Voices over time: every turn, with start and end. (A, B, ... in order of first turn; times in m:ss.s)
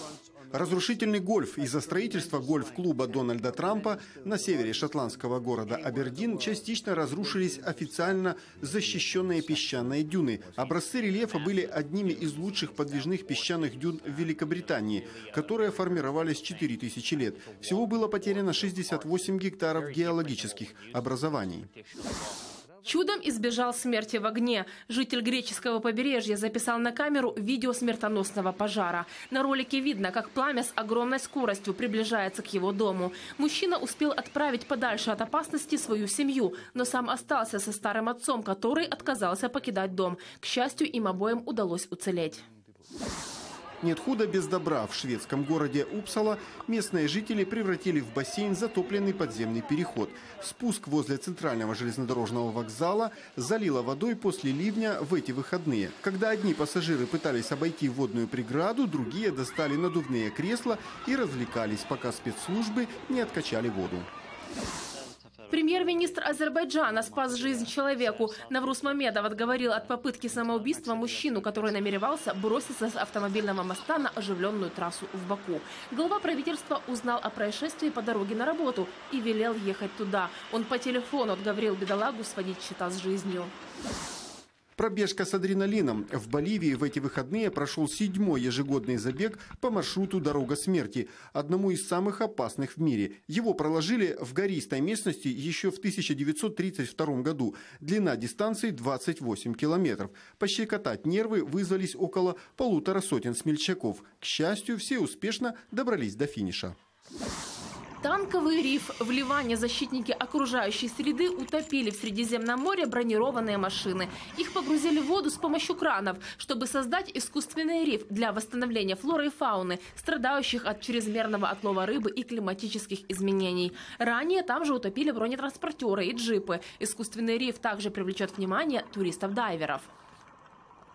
0:00.5-0:21.7 A
0:22.8-0:42.4 B
0:43.8-1:04.1 A
1:05.5-1:23.5 B
1:24.8-1:46.7 A
1:48.0-2:09.9 B